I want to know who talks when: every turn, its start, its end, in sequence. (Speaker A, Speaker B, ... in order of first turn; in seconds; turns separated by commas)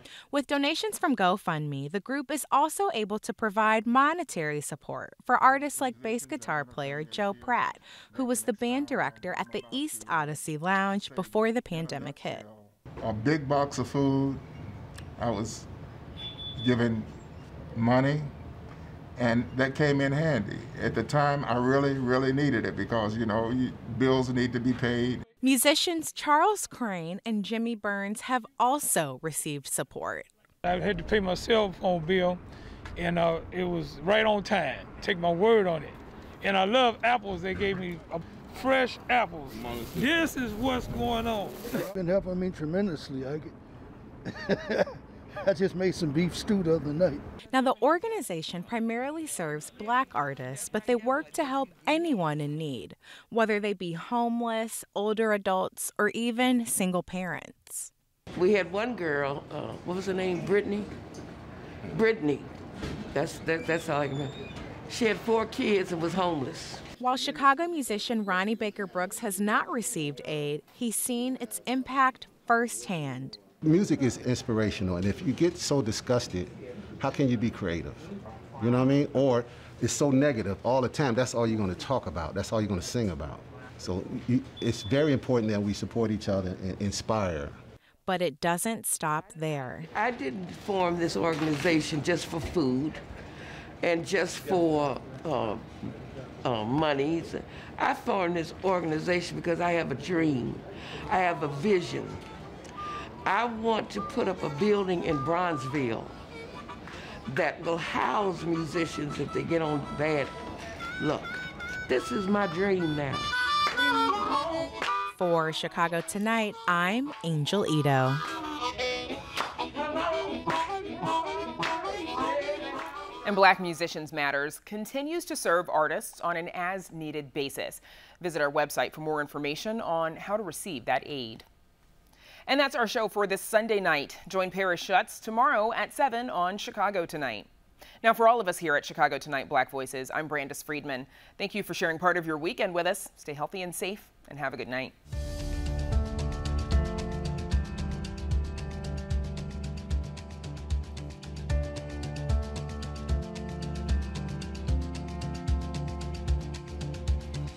Speaker A: 0.3-12.4, Speaker B: 13.0-14.4, Speaker B: 15.2-15.7, Speaker B: 16.6-17.1, Speaker B: 17.8-18.3, Speaker B: 19.2-25.2, Speaker A: 25.4-30.3, Speaker C: 30.6-32.4, Speaker C: 33.0-41.6, Speaker D: 41.8-43.5, Speaker D: 44.3-44.9, Speaker D: 45.5-47.2, Speaker A: 47.5-57.9, Speaker E: 58.4-60.9, Speaker E: 61.9-62.5, Speaker E: 63.1-64.3, Speaker E: 64.9-66.8, Speaker A: 67.0-73.4, Speaker F: 73.6-78.1, Speaker F: 78.6-87.6, Speaker A: 88.1-89.9, Speaker E: 90.0-93.0, Speaker E: 93.8-95.9, Speaker E: 96.4-102.2, Speaker E: 103.2-106.2, Speaker E: 107.3-110.3, Speaker E: 111.0-113.3, Speaker A: 115.1-118.2, Speaker G: 123.2-131.4, Speaker G: 132.5-137.5, Speaker G: 138.0-144.9